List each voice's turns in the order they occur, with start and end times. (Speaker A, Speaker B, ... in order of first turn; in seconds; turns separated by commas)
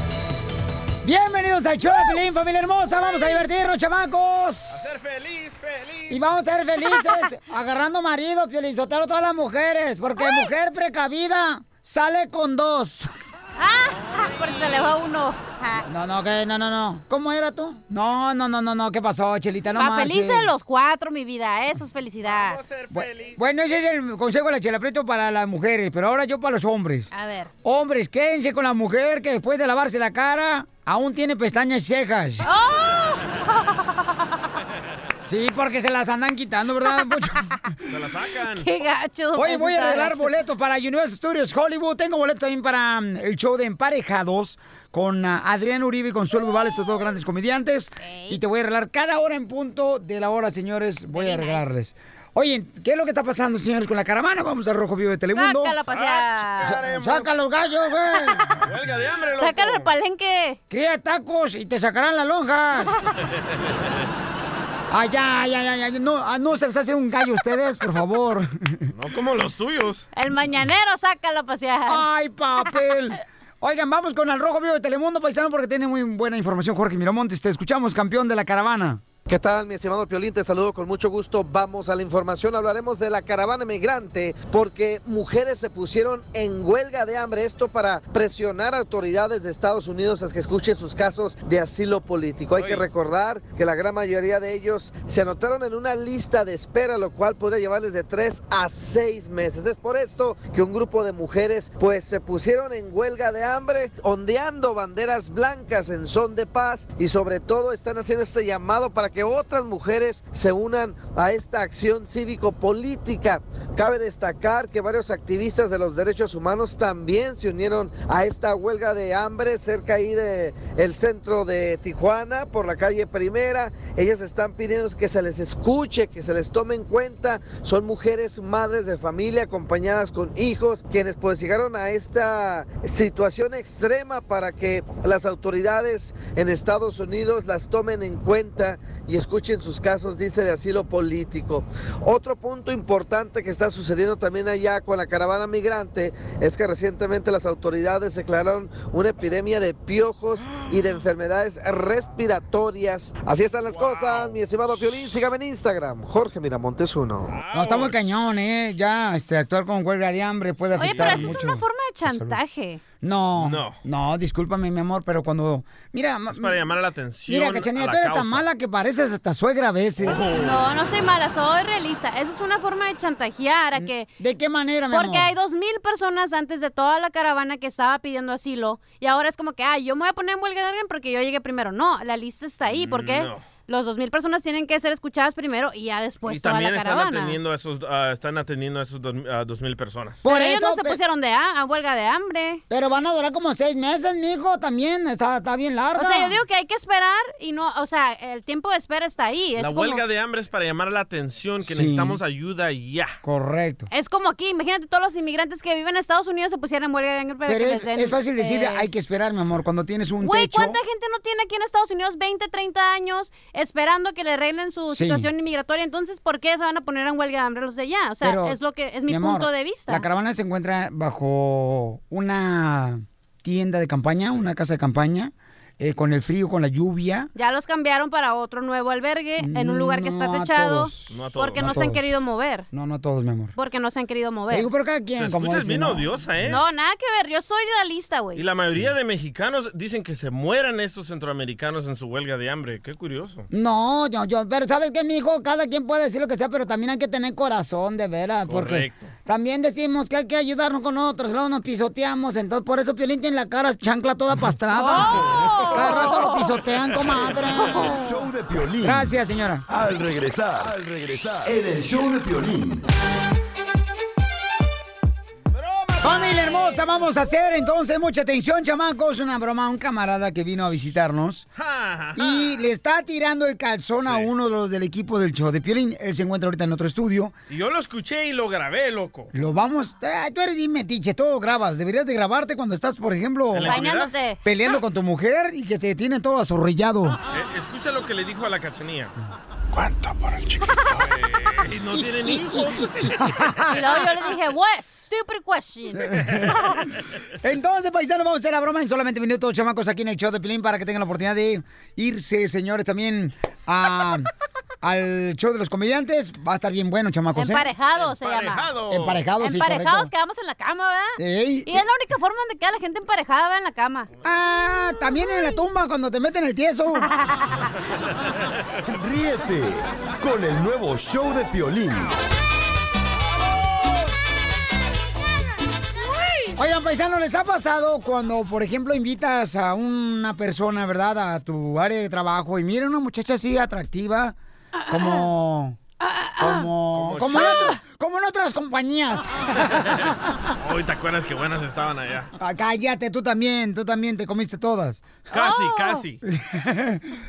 Speaker A: 1.0-5.0, Speaker B: 4.7-6.1, Speaker A: 6.1-13.1, Speaker C: 10.2-10.5, Speaker C: 13.6-15.8, Speaker A: 15.8-20.5, Speaker C: 19.7-22.6, Speaker A: 22.9-27.1, Speaker C: 27.1-27.5, Speaker A: 27.6-32.5, Speaker C: 32.4-33.8, Speaker A: 35.2-37.8, Speaker B: 37.9-38.7, Speaker C: 38.5-40.4, Speaker A: 39.3-55.8, Speaker C: 48.0-48.4, Speaker C: 51.1-51.7, Speaker C: 55.3-56.8, Speaker B: 55.9-57.3, Speaker A: 56.6-58.6, Speaker B: 58.6-59.9, Speaker C: 59.4-60.6, Speaker A: 60.7-62.9, Speaker A: 64.9-68.9, Speaker B: 68.9-70.0, Speaker C: 70.1-72.0, Speaker A: 71.9-79.0, Speaker D: 79.2-157.3, Speaker B: 92.5-92.8, Speaker B: 153.7-154.4, Speaker B: 157.3-158.0, Speaker A: 157.5-162.4, Speaker B: 160.7-161.4, Speaker C: 160.8-162.8, Speaker A: 163.0-166.6, Speaker B: 163.4-163.8, Speaker B: 166.3-168.5, Speaker A: 167.3-170.2, Speaker B: 170.0-170.8, Speaker C: 170.3-174.1, Speaker A: 173.8-175.3, Speaker C: 174.9-187.4, Speaker B: 182.6-183.4, Speaker B: 186.2-190.2, Speaker A: 190.2-191.0, Speaker C: 190.2-192.6, Speaker A: 192.7-196.4, Speaker C: 195.9-200.0, Speaker B: 199.6-203.2, Speaker A: 201.7-202.2, Speaker A: 203.2-203.9, Speaker C: 203.9-208.9, Speaker A: 207.4-210.8, Speaker C: 210.2-220.1, Speaker A: 214.9-215.3, Speaker A: 218.2-227.3, Speaker C: 227.3-232.7, Speaker A: 229.4-232.2, Speaker B: 231.1-231.9, Speaker A: 232.7-233.5, Speaker C: 233.6-234.7, Speaker A: 234.5-236.1, Speaker B: 235.2-236.6, Speaker C: 236.4-238.4, Speaker B: 238.3-243.5, Speaker A: 243.5-257.9, Speaker B: 248.5-249.1, Speaker C: 254.7-256.4, Speaker B: 256.9-257.4, Speaker E: 257.8-259.1, Speaker A: 258.8-259.7, Speaker E: 259.7-262.9, Speaker B: 265.5-267.1, Speaker A: 266.0-271.5, Speaker B: 271.6-272.6, Speaker A: 272.2-277.3, Speaker B: 274.0-274.3, Speaker B: 277.5-279.3, Speaker A: 279.3-283.9, Speaker B: 283.5-284.1, Speaker C: 283.6-284.4, Speaker A: 284.4-287.2, Speaker B: 287.3-289.1, Speaker B: 290.9-293.2, Speaker A: 292.0-293.8, Speaker C: 293.7-296.8, Speaker A: 296.0-296.6, Speaker A: 297.4-304.3, Speaker A: 304.8-307.7, Speaker C: 307.4-308.8, Speaker B: 307.9-309.3, Speaker A: 308.9-310.1, Speaker C: 309.4-314.1, Speaker A: 311.2-311.9, Speaker A: 314.2-317.1, Speaker E: 318.9-322.2, Speaker A: 326.6-334.4, Speaker A: 334.9-335.8, Speaker C: 334.9-335.2, Speaker C: 336.4-336.7, Speaker A: 336.4-340.4, Speaker B: 336.9-337.8, Speaker C: 337.4-337.8, Speaker B: 340.6-342.3, Speaker A: 342.4-345.1, Speaker B: 345.3-346.2, Speaker C: 345.4-346.0, Speaker A: 346.2-347.1